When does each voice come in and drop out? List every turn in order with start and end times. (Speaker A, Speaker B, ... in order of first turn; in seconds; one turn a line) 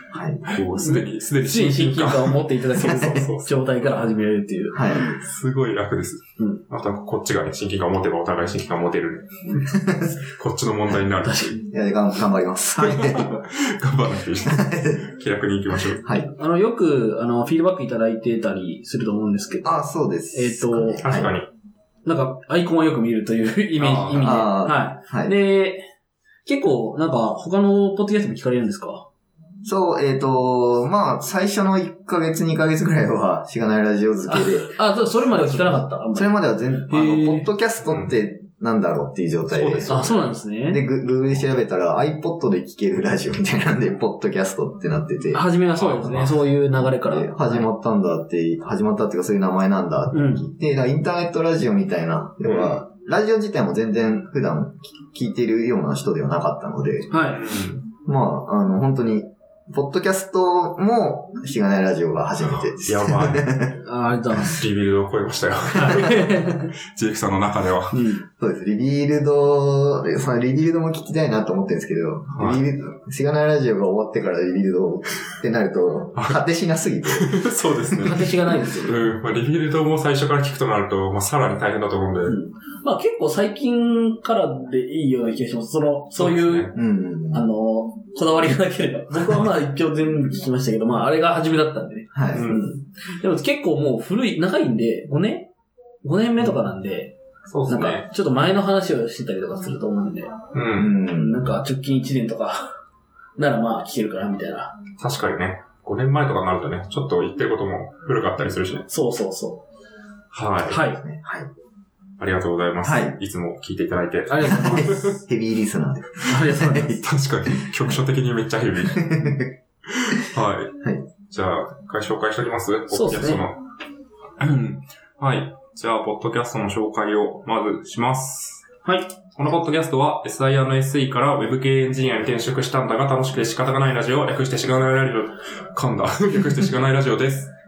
Speaker A: 0.1-0.4
Speaker B: 0.4-4.0
Speaker C: 0.7-5.1
Speaker A: 2.8-3.2
Speaker A: 4.7-5.2
Speaker B: 5.1-11.6
Speaker A: 9.7-10.1
Speaker C: 11.2-11.6
Speaker A: 11.6-13.4
Speaker B: 12.8-16.1
Speaker A: 14.4-15.1
Speaker A: 16.0-16.3
Speaker C: 16.3-19.8
Speaker A: 19.6-21.3
Speaker C: 20.3-21.0
Speaker B: 21.0-21.5
Speaker C: 22.1-25.9
Speaker B: 23.8-24.4
Speaker A: 24.2-25.3
Speaker C: 26.4-29.1
Speaker A: 29.6-34.7
Speaker C: 34.3-37.5
Speaker A: 35.3-40.0
Speaker B: 37.8-38.1
Speaker B: 39.5-40.3
Speaker C: 39.9-40.8
Speaker A: 40.7-45.5
Speaker C: 45.3-47.7
Speaker B: 45.8-46.4
Speaker A: 46.8-57.2
Speaker C: 50.1-50.5
Speaker B: 52.5-52.8
Speaker C: 57.1-57.4
Speaker B: 57.3-57.8
Speaker A: 58.0-63.8
Speaker B: 62.5-63.7
Speaker C: 63.8-64.6
Speaker B: 64.5-68.0
Speaker C: 65.8-66.7
Speaker C: 67.9-68.3
Speaker A: 68.3-78.1
Speaker B: 72.3-72.6
Speaker B: 76.2-76.4
Speaker B: 77.1-82.4
Speaker C: 78.0-79.0
Speaker C: 82.3-86.7
Speaker B: 86.2-86.7
Speaker A: 86.7-87.5
Speaker C: 87.3-95.5
Speaker A: 92.1-92.5
Speaker B: 92.3-92.6
Speaker C: 96.0-97.1
Speaker B: 97.5-98.1
Speaker C: 97.7-100.3
Speaker B: 100.5-101.0
Speaker A: 100.8-101.6
Speaker C: 101.1-102.7
Speaker C: 103.4-104.8
Speaker B: 105.0-108.9
Speaker C: 108.9-109.6
Speaker B: 110.3-110.8
Speaker C: 110.7-111.0
Speaker A: 111.0-111.5
Speaker B: 112.2-115.2
Speaker A: 112.8-113.2
Speaker C: 114.3-115.2
Speaker A: 114.4-118.0
Speaker C: 116.3-117.0
Speaker B: 117.0-119.2
Speaker A: 118.9-119.5
Speaker B: 119.9-123.6
Speaker C: 122.9-123.4
Speaker B: 124.4-128.7
Speaker C: 128.8-129.1
Speaker B: 129.3-137.5